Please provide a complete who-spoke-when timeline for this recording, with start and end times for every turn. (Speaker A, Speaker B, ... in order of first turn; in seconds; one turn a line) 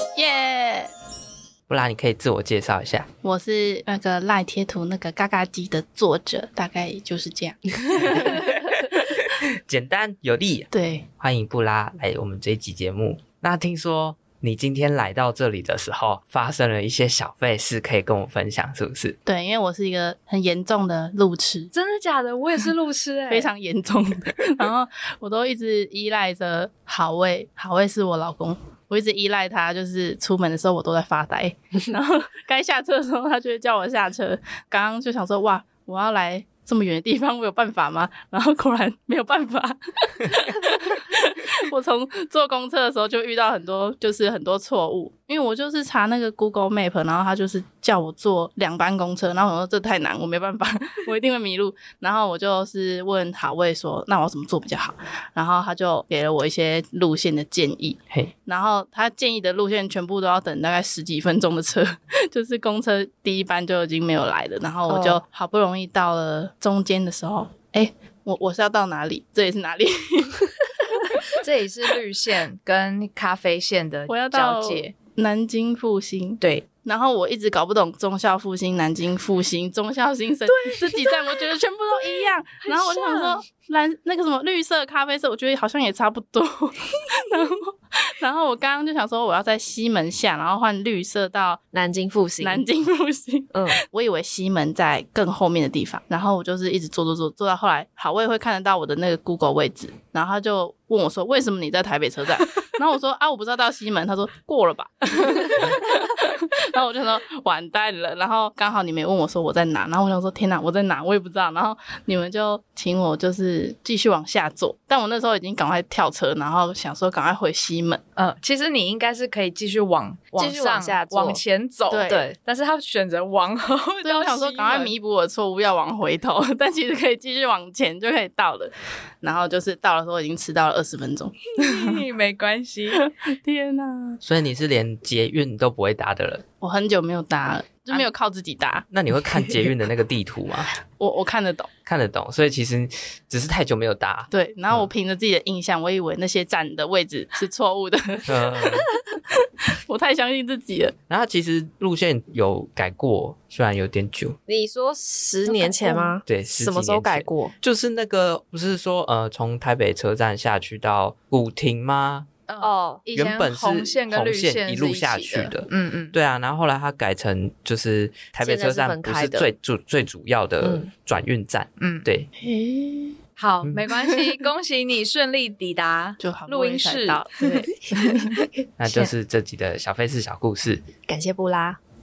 Speaker A: 0.1-0.9
Speaker B: 1.7-3.1
Speaker A: 3.2-9.2
Speaker B: 8.0-8.4
Speaker B: 9.7-19.2
Speaker A: 10.7-11.1
Speaker A: 19.2-21.7
Speaker C: 21.7-23.5
Speaker A: 23.3-71.3
Speaker D: 64.9-65.2
Speaker C: 71.3-74.9
Speaker A: 74.1-91.6
Speaker C: 76.4-76.6
Speaker C: 80.5-81.4
Speaker C: 82.6-83.4
Speaker D: 91.7-92.6
Speaker A: 92.4-118.0
Speaker C: 118.2-124.9
Speaker D: 120.4-121.4
Speaker A: 121.9-122.2
Speaker D: 122.1-122.3
Speaker A: 124.0-132.0
Speaker C: 131.6-133.0
Speaker A: 132.9-134.2
Speaker B: 134.2-136.4
Speaker A: 136.6-138.8
Speaker B: 138.9-140.7
Speaker A: 140.9-141.7
Speaker B: 141.8-144.9
Speaker A: 144.3-149.3
Speaker B: 148.3-148.9
Speaker A: 149.8-150.9
Speaker B: 151.1-154.4
Speaker D: 154.5-157.5
Speaker C: 155.4-156.2
Speaker B: 156.2-162.3
Speaker C: 162.5-166.1
Speaker D: 162.6-163.0
Speaker B: 163.1-172.3
Speaker D: 168.4-169.5
Speaker D: 170.6-170.9
Speaker C: 171.8-172.1
Speaker A: 172.4-173.2
Speaker C: 173.4-177.7
Speaker A: 176.2-178.4
Speaker B: 178.8-180.8
Speaker D: 178.8-179.1
Speaker D: 181.1-181.8